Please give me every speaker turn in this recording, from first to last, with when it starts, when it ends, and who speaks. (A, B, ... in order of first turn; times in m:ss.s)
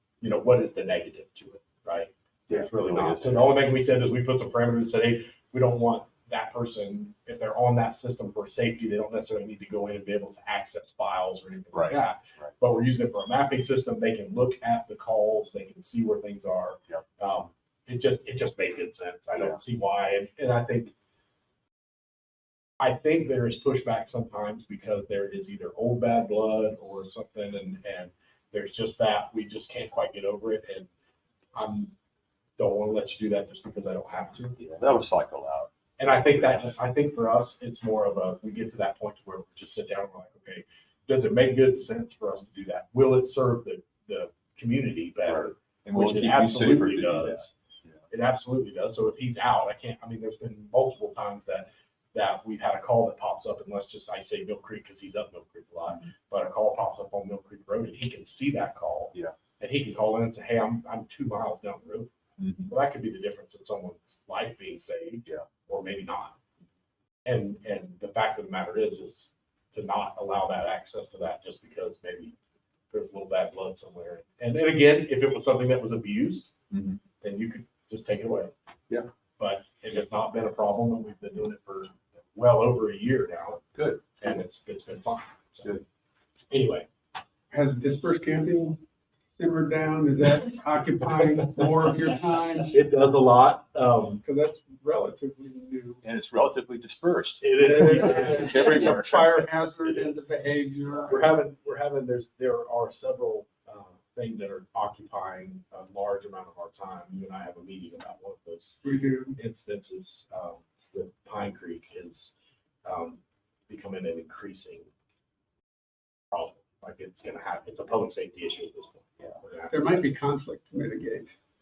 0:00.2-0:20.9 A
0:02.5-0:03.6 B
0:11.7-0:12.5 B
0:22.8-0:30.9 A
0:31.5-0:31.9 A
0:32.6-0:34.7 A
0:34.6-0:35.7 B
0:36.0-0:47.5 A
0:36.3-0:36.7 B
0:45.3-0:48.0 B
0:48.1-1:02.1 A
1:02.4-1:02.7 B
1:02.7-1:06.4 A
1:07.3-1:12.4 A
1:12.9-1:16.5 A
1:16.7-1:17.0 B
1:17.2-1:18.5 A
1:19.4-1:23.6 A
1:23.8-1:24.0 B
1:24.2-1:25.8 A
1:26.5-1:26.9 A
1:27.5-1:28.8 C
1:29.4-1:32.7 C
1:32.7-1:34.2 A
1:34.2-1:36.0 C
1:36.0-1:39.5 B
1:37.4-1:39.0 A
1:37.6-1:41.3 C
1:39.8-1:40.3 A
1:41.1-1:48.8 A
1:48.8-1:49.4 C
1:49.4-1:52.3 A
1:52.8-1:54.9 A
1:56.3-2:00.1 A
1:59.7-2:01.3 C